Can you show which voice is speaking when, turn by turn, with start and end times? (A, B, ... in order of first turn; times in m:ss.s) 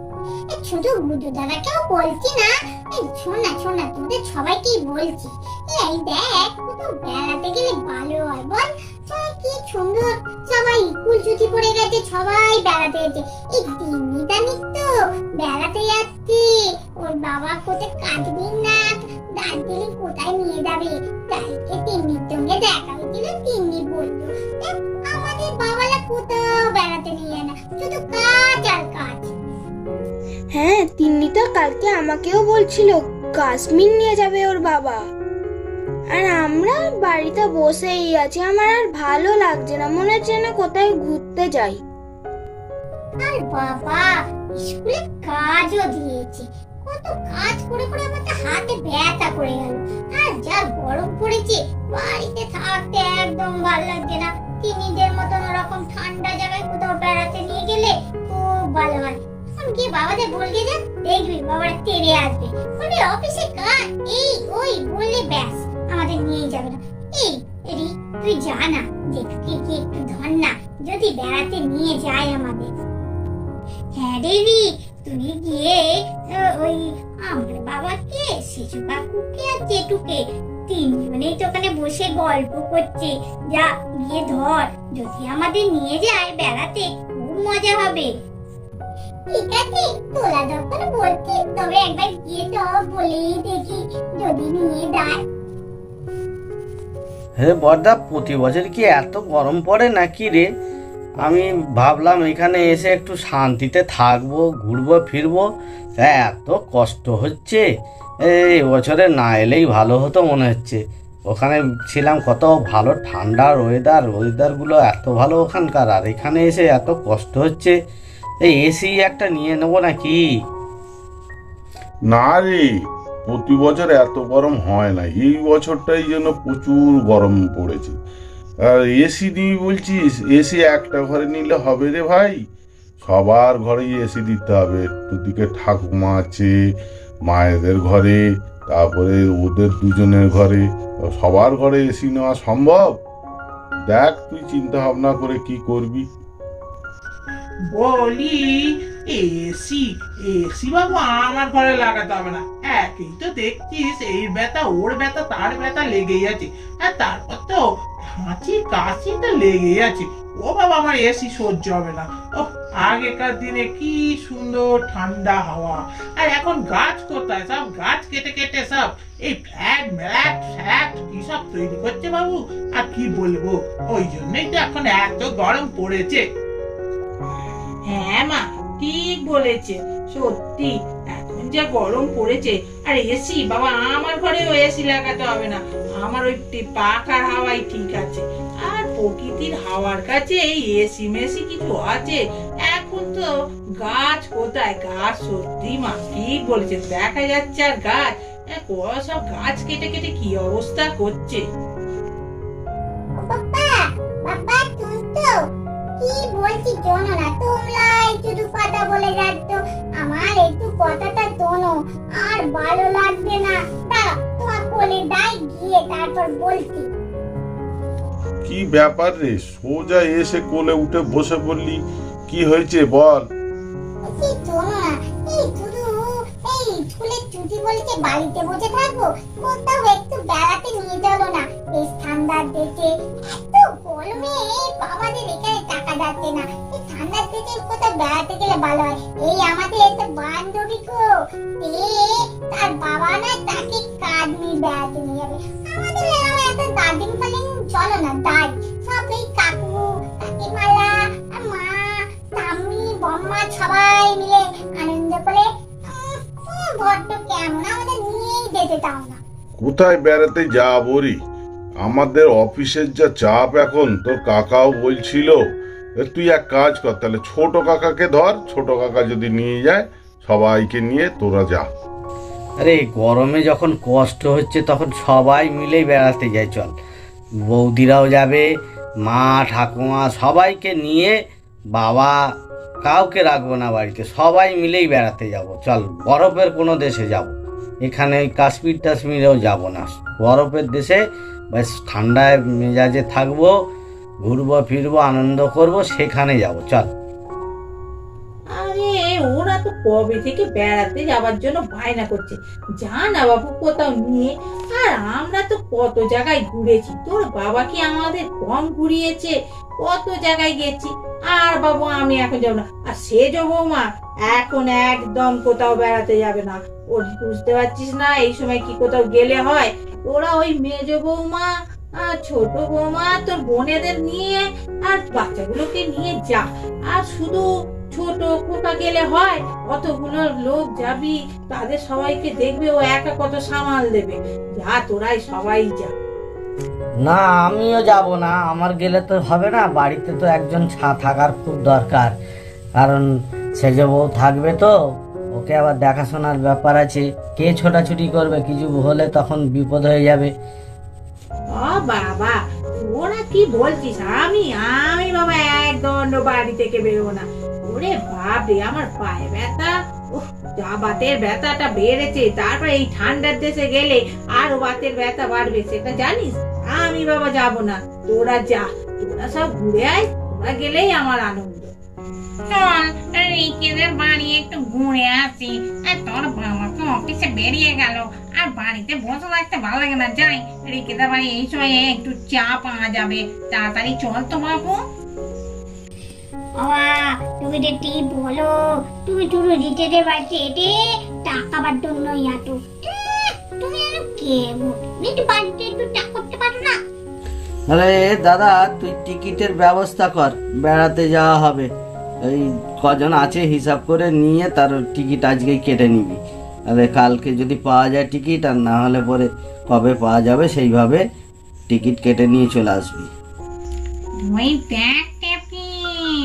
0:00.5-0:29.4 A
0:30.5-0:35.1 B
0:36.1-0:41.8 B
0:43.2-1:12.8 A
1:13.9-1:28.1 A
1:29.3-1:35.2 A
1:37.4-1:40.5 C
1:41.2-1:45.5 C
1:46.0-1:47.6 C
1:48.3-1:57.8 C
1:58.4-2:00.2 C
2:02.1-2:02.7 D
2:03.3-2:08.0 D
2:08.6-2:12.4 D
2:13.0-2:16.5 D
2:17.3-2:23.0 D
2:23.9-2:26.0 D
2:27.7-2:37.6 E
2:38.2-2:56.2 E
2:57.9-3:13.3 F
3:13.8-3:21.4 F
3:23.2-3:25.4 A
3:26.0-3:36.9 A
3:38.4-3:43.3 D
3:44.0-4:19.2 A
4:19.6-4:21.2 D
4:21.8-4:25.4 D
4:26.0-4:31.7 D
4:32.6-4:36.7 C
4:37.5-4:38.5 C
4:39.1-4:41.2 C
4:41.7-4:42.2 C
4:42.8-4:51.0 C
4:51.5-4:53.5 C
4:54.2-4:56.9 C
4:58.6-5:21.5 F
5:22.0-5:35.9 F
5:37.0-5:42.2 C
5:42.8-5:44.7 C
5:45.3-5:50.3 C
5:51.6-5:52.4 F
5:52.9-6:11.7 F
6:12.5-6:23.5 F
6:22.0-6:22.8 G
6:23.5-6:24.6 G
6:24.1-6:24.4 F
6:26.6-6:36.8 A
6:37.7-6:41.7 C
6:42.2-6:51.0 C
6:51.7-6:53.1 C
6:54.3-6:55.7 G